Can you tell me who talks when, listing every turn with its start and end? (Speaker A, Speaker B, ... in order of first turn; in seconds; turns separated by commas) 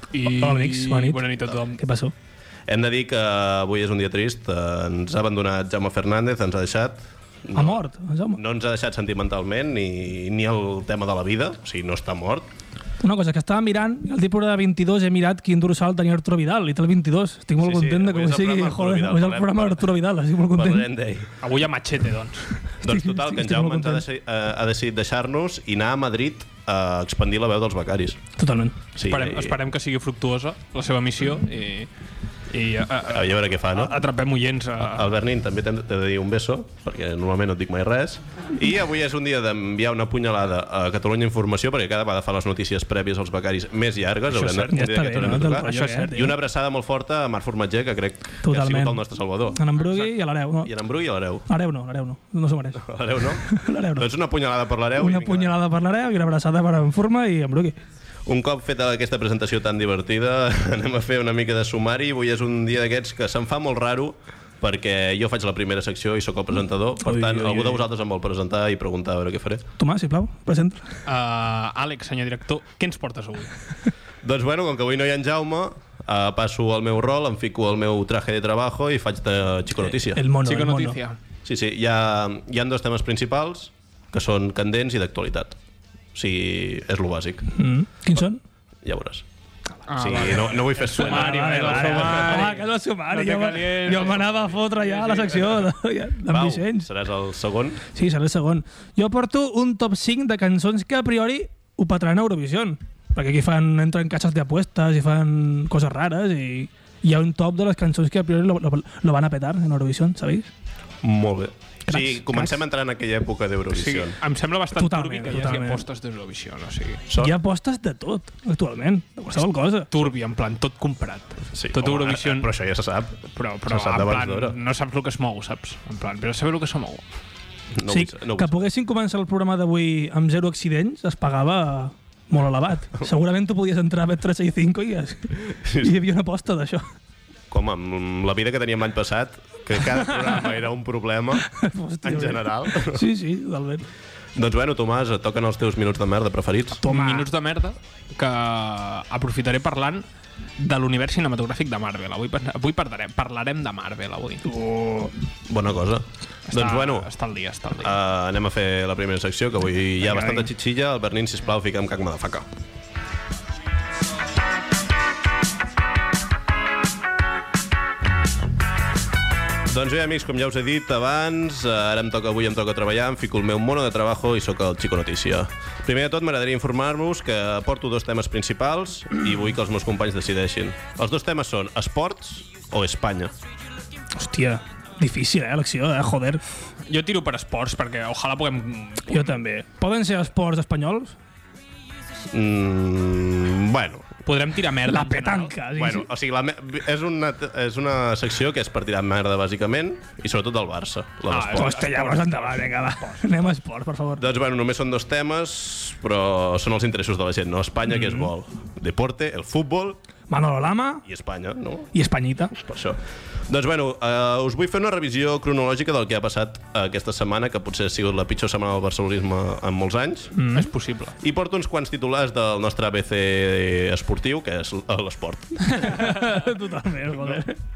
Speaker A: 0.1-1.8, Speaker B: 0.3-2.1, Speaker C: 2.7-7.8, Speaker B: 7.5-8.4, Speaker C: 8.3-12.5, Speaker B: 13.0-20.9, Speaker C: 17.6-19.9, Speaker C: 20.5-21.3, Speaker A: 21.4-22.4, Speaker C: 22.8-28.2, Speaker B: 22.8-24.0, Speaker B: 28.4-28.8, Speaker C: 28.9-29.6, Speaker A: 29.0-31.9, Speaker A: 32.5-35.1, Speaker C: 33.1-34.0, Speaker C: 34.8-49.7, Speaker A: 44.4-44.7, Speaker B: 44.4-46.3, Speaker A: 45.7-46.1, Speaker B: 48.4-49.0, Speaker B: 49.5-50.7, Speaker C: 50.6-51.5, Speaker B: 51.5-54.1, Speaker C: 52.8-55.5, Speaker B: 55.0-57.8, Speaker C: 58.2-69.6, Speaker B: 67.0-67.8, Speaker B: 69.8-70.9, Speaker A: 71.0-73.5, Speaker C: 74.2-80.2, Speaker B: 80.1-81.0, Speaker A: 80.4-81.2, Speaker C: 81.4-85.5, Speaker C: 86.1-87.5, Speaker B: 87.5-88.4, Speaker C: 88.8-89.2, Speaker A: 89.9-95.7, Speaker C: 89.9-92.5, Speaker B: 91.0-96.9, Speaker C: 96.3-97.8, Speaker B: 97.9-110.5, Speaker C: 111.0-114.2, Speaker B: 111.9-112.6, Speaker A: 113.7-117.0, Speaker B: 114.8-115.8, Speaker C: 117.1-117.3, Speaker B: 117.2-119.9, Speaker A: 119.9-122.5, Speaker C: 121.5-124.5, Speaker A: 123.3-127.0, Speaker C: 127.7-128.6, Speaker B: 127.9-136.8, Speaker C: 135.4-135.9, Speaker C: 137.5-141.5, Speaker B: 141.4-143.8, Speaker C: 142.0-143.0, Speaker C: 144.3-146.8, Speaker B: 146.8-147.3, Speaker A: 146.8-150.0, Speaker A: 150.6-154.4, Speaker B: 154.4-155.1, Speaker C: 155.5-157.1, Speaker A: 156.5-157.9, Speaker C: 157.8-162.5, Speaker B: 160.1-160.4, Speaker C: 169.7-183.3, Speaker B: 184.2-186.4, Speaker A: 186.9-189.3, Speaker B: 189.1-191.2, Speaker C: 192.3-194.1, Speaker A: 194.2-195.5, Speaker B: 194.9-196.1, Speaker C: 195.8-201.8, Speaker A: 201.3-203.5, Speaker B: 201.6-204.2, Speaker C: 204.2-210.0, Speaker B: 210.3-211.0, Speaker C: 211.0-211.9, Speaker B: 211.9-212.6, Speaker C: 212.6-220.3, Speaker B: 220.3-220.7, Speaker A: 220.5-221.1, Speaker C: 221.2-226.0, Speaker B: 225.6-227.6